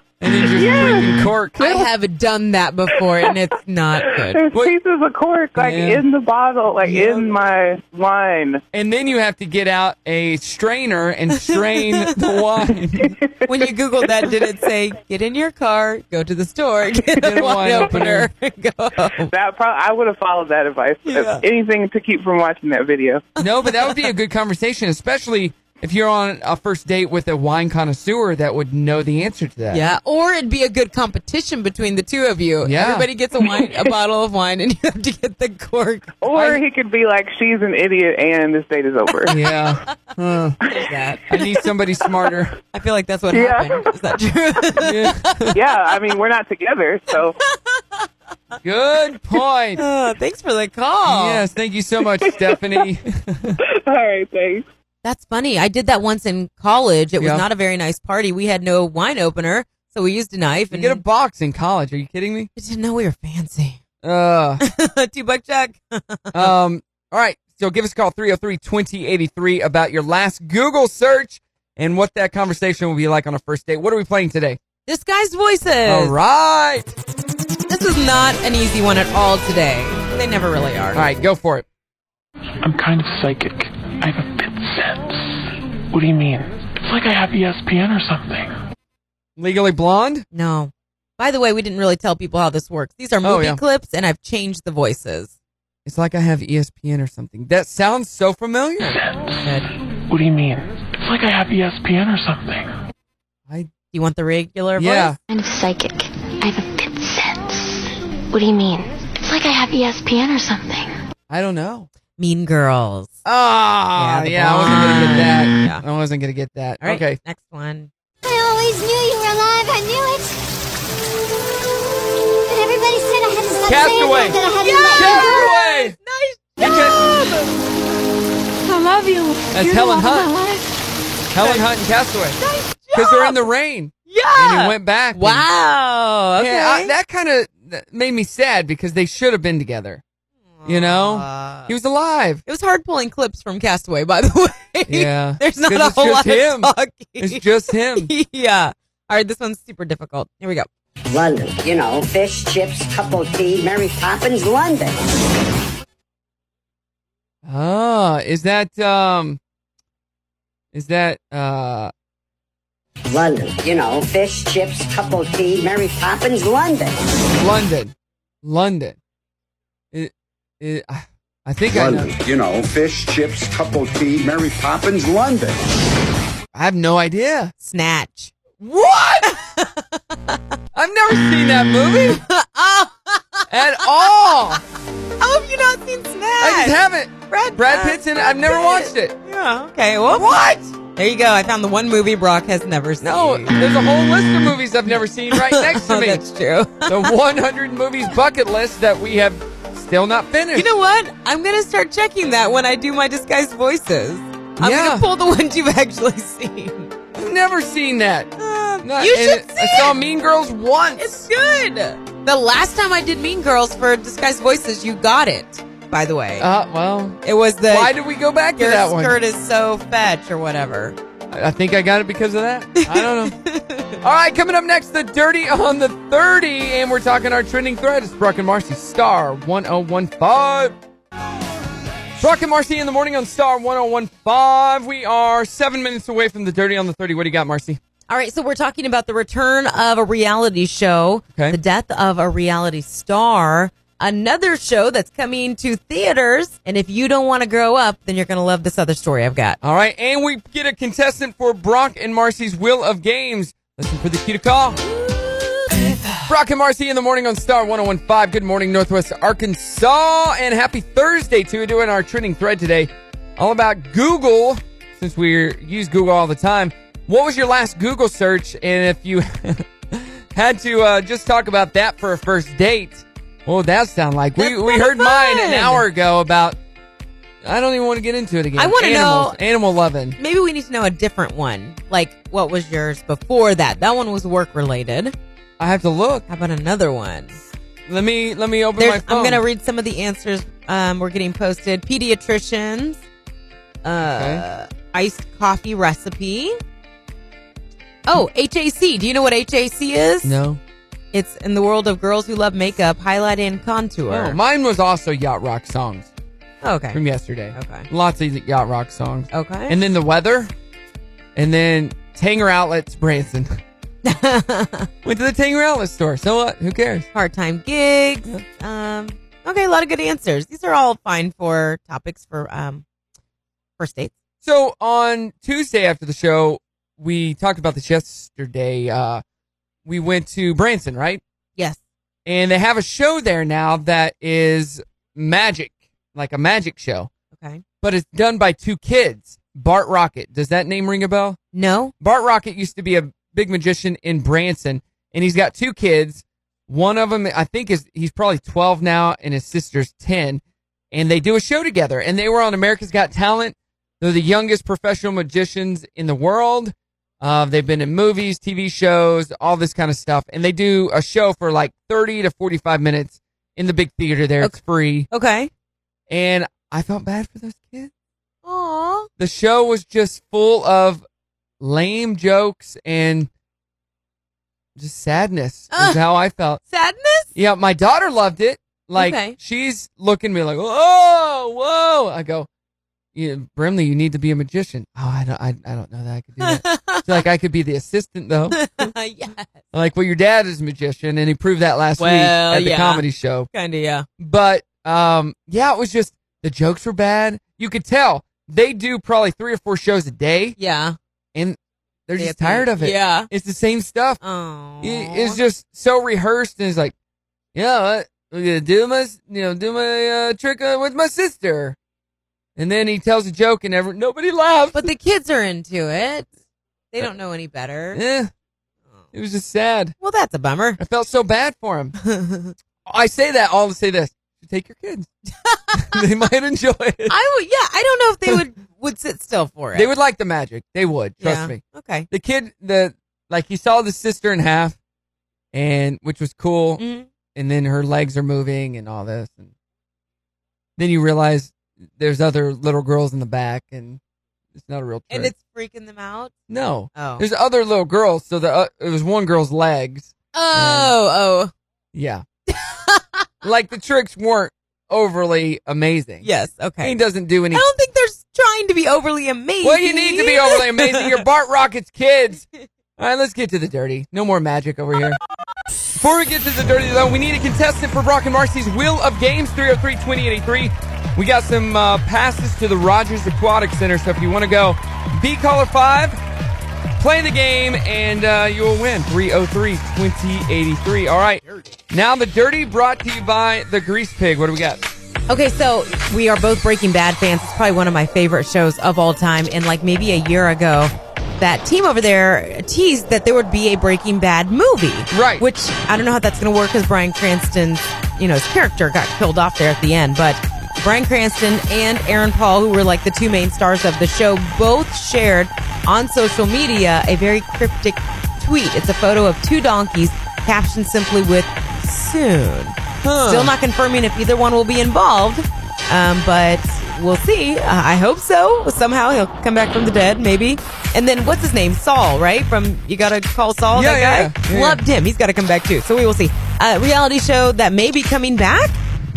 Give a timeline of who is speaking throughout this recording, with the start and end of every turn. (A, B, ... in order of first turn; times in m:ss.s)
0:00.2-0:01.9 A
0:00.4-0:01.3 B
0:01.6-0:04.4 C
0:04.2-0:08.6 B
0:05.6-0:06.0 A
0:06.8-0:07.3 C
0:08.7-0:13.2 A
0:11.5-0:12.2 C
0:13.0-0:13.3 B
0:13.5-0:19.3 C
0:17.2-0:18.3 A
0:19.2-0:23.3 B
0:21.1-0:21.4 C
0:23.4-0:29.8 A
0:23.6-0:24.1 C
0:29.7-0:36.1 C
0:32.6-0:33.1 A
0:36.2-0:39.4 B
0:36.3-0:36.6 A
0:39.3-0:40.6 A
0:40.7-0:41.2 C
0:41.3-0:42.6 A
0:42.7-0:45.5 C
0:43.3-0:43.9 B
0:44.8-0:45.6 A
0:45.5-0:47.4 B
0:47.5-0:48.1 C
0:48.6-0:49.8 A
0:49.8-0:51.5 C
0:51.1-0:53.6 A
0:52.2-0:52.8 B
0:53.6-0:54.6 B
0:55.0-1:01.0 C
0:57.2-0:57.4 A
1:00.7-1:02.5 A
1:02.6-1:03.8 C
1:04.0-1:04.6 A
1:04.6-1:06.5 C
1:06.3-1:14.6 A
1:14.9-1:16.2 C
1:15.9-1:16.9 A
1:17.7-1:21.1 C
1:21.0-1:21.7 A
1:22.6-1:25.4 D
1:25.9-1:28.6 D
1:29.4-1:30.3 A
1:30.3-1:35.3 C
1:33.2-1:33.6 A
1:35.8-1:39.0 A
1:38.9-1:39.4 D
1:39.4-1:39.7 C
1:40.1-1:42.8 D
1:43.9-1:45.2 C
1:44.8-1:45.2 A
1:45.3-1:51.0 E
1:51.3-1:51.9 A
1:52.2-1:53.2 C
1:53.2-1:57.2 A
1:54.0-1:55.8 C
1:56.8-1:57.9 C
1:58.2-2:00.3 F
2:02.5-2:05.4 F
2:03.6-2:04.4 A
2:04.5-2:07.6 C
2:04.9-2:06.0 A
2:06.6-2:07.1 A
2:08.7-2:10.6 C
2:09.5-2:10.3 A
2:11.3-2:12.4 A
2:11.4-2:11.7 C
2:12.4-2:13.5 C
2:12.9-2:15.5 A
2:14.1-2:16.9 C
2:16.4-2:20.0 A
2:20.6-2:21.7 C
2:20.6-2:22.4 A
2:22.5-2:30.7 C
2:24.9-2:28.1 A
2:31.1-2:35.1 G
2:37.4-2:39.4 A
2:40.7-2:41.9 A
2:43.1-2:47.1 G
2:47.3-2:49.0 A
2:49.9-2:52.1 A
2:51.7-2:55.7 H
2:56.5-2:57.5 A
2:57.6-2:58.3 C
2:58.6-2:59.4 A
2:59.3-3:00.4 C
3:00.7-3:02.2 A
3:02.1-3:04.6 C
3:03.5-3:04.6 A
3:05.2-3:06.8 C
3:06.4-3:09.2 A
3:07.3-3:10.4 C
3:10.1-3:10.7 A
3:10.9-3:13.6 C
3:13.0-3:16.2 A
3:15.3-3:17.2 C
3:16.8-3:20.7 A
3:20.6-3:26.9 C
3:24.6-3:25.1 A
3:27.2-3:31.2 A
3:28.4-3:30.0 C
3:31.0-3:36.5 C
3:36.4-3:39.2 A
3:37.2-3:38.0 C
3:38.6-3:41.0 C
3:41.3-3:43.4 A
3:42.8-3:44.0 C
3:44.0-3:50.8 A
3:52.2-3:57.8 A
3:58.1-4:09.6 C
4:09.6-4:14.8 A
4:14.9-4:16.2 C
4:16.3-4:36.6 A
4:34.4-4:35.8 C
4:37.4-4:40.2 A
4:38.6-4:39.4 C
4:40.2-4:45.1 C
4:45.6-4:46.3 A
4:46.3-4:47.5 C
4:47.9-4:49.4 A
4:48.8-4:53.0 C
4:53.8-4:56.6 C
4:54.1-4:54.4 A
4:58.1-5:00.4 C
5:00.2-5:00.6 A
5:01.1-5:04.4 C
5:04.1-5:06.1 A
5:06.6-5:07.0 C
5:06.9-5:10.5 A
5:07.5-5:07.9 C
5:09.3-5:09.8 C
5:11.4-5:13.6 A
5:14.0-5:14.9 C
5:15.0-5:17.1 A
5:17.1-5:22.8 C
5:23.8-5:24.1 C
5:24.4-5:29.2 A
5:29.9-5:31.2 A
5:32.3-5:37.1 A
5:37.3-5:37.6 C
5:37.8-5:41.4 A
5:41.5-5:41.9 C
5:42.0-6:05.1 A
6:05.1-6:05.5 C
6:06.1-6:07.9 A
6:08.4-6:09.1 C
6:09.2-6:11.0 A
6:11.6-6:13.3 A
6:14.8-6:16.6 A
6:15.7-6:16.0 C
6:16.7-6:17.3 C
6:17.3-6:22.5 A
6:19.0-6:19.4 C
6:23.2-6:28.6 A
6:26.4-6:27.2 C
6:28.5-6:29.5 C
6:29.7-6:33.5 A
6:32.0-6:34.1 C
6:34.2-6:40.6 A
6:40.6-6:41.0 C
6:41.4-6:44.2 A
6:42.2-6:43.3 C
6:44.2-6:45.4 C
6:44.8-6:46.9 A
6:47.5-6:51.8 A
6:52.6-6:54.9 A
6:54.7-6:56.3 C
6:56.9-6:58.0 C
6:57.9-6:58.3 A
6:59.1-7:00.0 A
7:00.0-7:00.8 C
7:00.8-7:02.0 A
7:02.0-7:02.5 C
7:02.9-7:05.1 A
7:05.4-7:06.0 C
7:05.7-7:07.2 A
7:07.1-7:09.9 C
7:09.7-7:14.8 A
7:11.2-7:12.1 C
7:15.5-7:16.8 A
7:16.8-7:17.1 C
7:17.4-7:19.5 A
7:20.8-7:24.0 A
7:24.6-7:25.3 A
7:25.1-7:26.3 C
7:26.5-7:30.9 A
7:27.0-7:27.2 C
7:30.3-7:31.5 C
7:31.9-7:32.2 A
7:32.5-7:33.3 C
7:33.4-7:36.3 A
7:36.2-7:37.0 C
7:36.8-7:37.7 A
7:37.5-7:41.2 C
7:39.6-7:42.4 A
7:43.0-7:45.2 A
7:46.0-7:56.2 A
7:57.0-8:04.8 A
8:05.3-8:48.8 C
8:15.1-8:15.4 A
8:33.0-8:33.5 A
8:43.7-8:44.8 A